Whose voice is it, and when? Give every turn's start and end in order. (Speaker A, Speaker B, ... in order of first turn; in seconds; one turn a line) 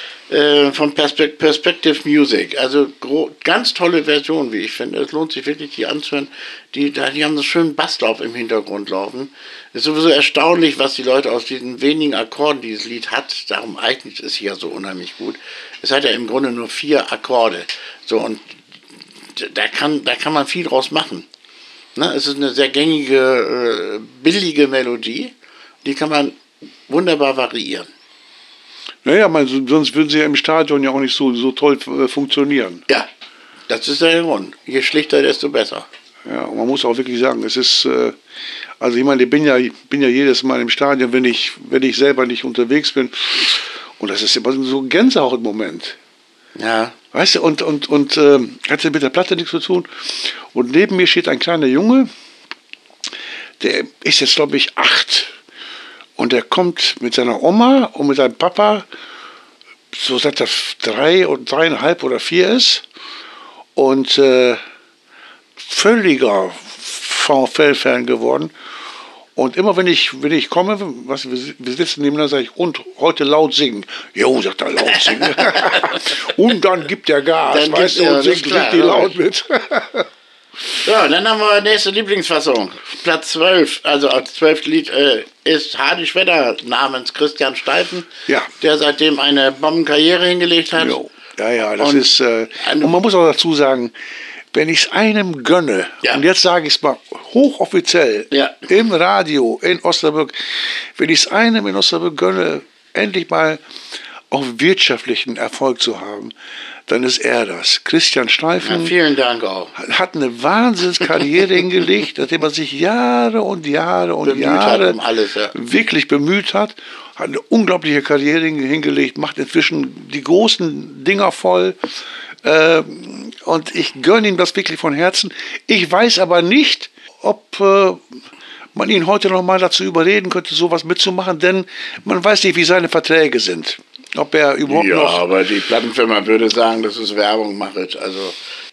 Speaker A: 0.3-18.4
Speaker A: 19.4-21.3
Speaker A: 22.0-26.4
Speaker A: 26.9-27.9
Speaker B: 29.0-32.8
Speaker A: 33.7-35.9
Speaker B: 36.3-38.2
Speaker B: 38.8-46.0
Speaker A: 46.6-47.0
Speaker B: 47.1-52.1
Speaker B: 53.6-55.3
Speaker B: 56.2-58.9
Speaker B: 59.9-62.8
Speaker B: 63.8-64.6
Speaker B: 65.6-68.5
Speaker B: 69.4-80.1
Speaker A: 77.5-79.2
Speaker A: 80.8-88.1
Speaker A: 88.6-91.0
Speaker B: 90.8-93.9
Speaker A: 91.8-92.1
Speaker A: 92.6-92.9
Speaker B: 94.5-103.6
Speaker A: 98.3-98.7
Speaker B: 104.3-106.3
Speaker B: 106.9-108.9
Speaker A: 108.6-109.7
Speaker B: 109.8-115.0
Speaker A: 114.2-115.5
Speaker B: 115.5-121.8
Speaker B: 122.4-128.0
Speaker B: 128.7-135.2
Speaker A: 134.7-138.4